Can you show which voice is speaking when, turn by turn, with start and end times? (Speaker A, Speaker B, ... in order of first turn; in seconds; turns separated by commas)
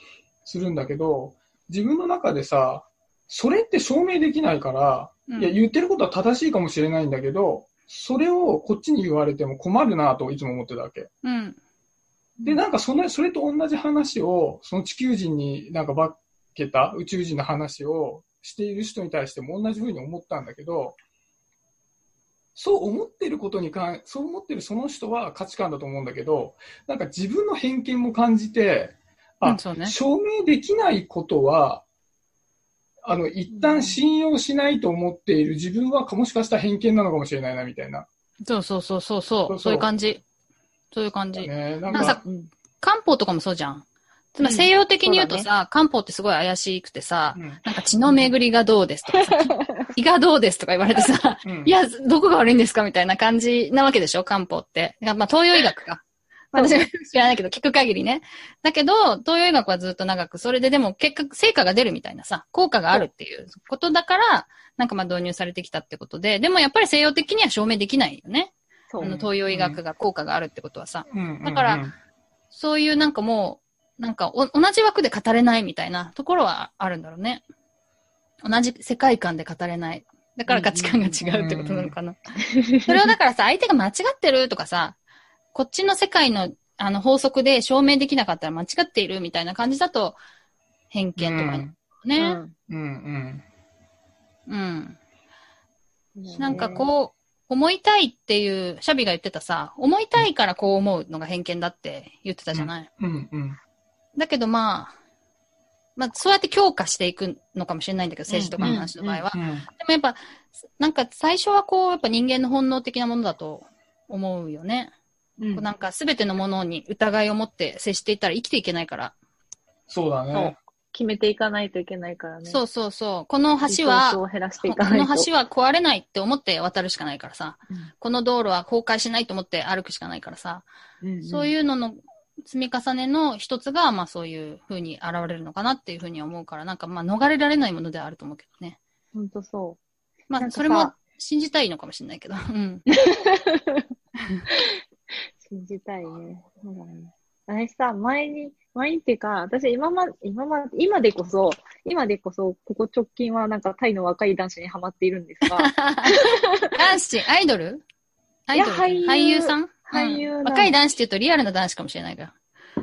Speaker A: 0.5-11.1, Speaker B: 5.3-5.6, Speaker B: 11.2-11.6, Speaker A: 12.4-21.0, Speaker A: 22.6-31.8, Speaker B: 29.4-30.0, Speaker A: 33.0-38.1, Speaker C: 33.5-34.0, Speaker B: 38.4-40.2, Speaker A: 39.5-39.9, Speaker B: 40.9-42.2, Speaker A: 41.4-42.2, Speaker C: 42.0-42.5, Speaker B: 42.8-56.0, Speaker C: 44.4-45.5, Speaker A: 47.4-47.6, Speaker C: 49.3-49.8, Speaker A: 51.5-51.7, Speaker C: 56.5-56.8, Speaker B: 56.5-71.8, Speaker C: 68.9-69.2, Speaker A: 69.0-69.8, Speaker A: 71.1-72.0, Speaker B: 72.5-77.4, Speaker B: 78.4-82.2, Speaker C: 80.5-81.0, Speaker A: 81.2-82.0, Speaker C: 82.5-82.9, Speaker B: 82.8-85.0, Speaker B: 85.5-90.2, Speaker B: 90.9-92.4, Speaker A: 91.2-91.8, Speaker C: 92.2-92.5, Speaker A: 92.7-93.5, Speaker B: 94.5-95.0, Speaker C: 96.2-96.9, Speaker A: 96.4-96.9, Speaker B: 96.4-102.9, Speaker A: 102.5-103.6, Speaker B: 104.2-104.9, Speaker B: 106.0-110.2, Speaker C: 108.3-109.2, Speaker A: 108.6-109.7, Speaker B: 110.8-114.9, Speaker C: 115.4-115.7, Speaker B: 115.5-119.1, Speaker A: 119.9-120.6, Speaker C: 120.3-122.6, Speaker B: 122.5-130.7, Speaker C: 123.7-125.3, Speaker C: 131.0-131.5, Speaker B: 131.2-138.8, Speaker C: 139.1-139.8, Speaker B: 140.3-142.8, Speaker C: 140.4-140.9, Speaker C: 142.9-143.9, Speaker C: 145.4-156.5, Speaker B: 155.6-157.8, Speaker B: 158.5-162.3, Speaker C: 158.6-160.8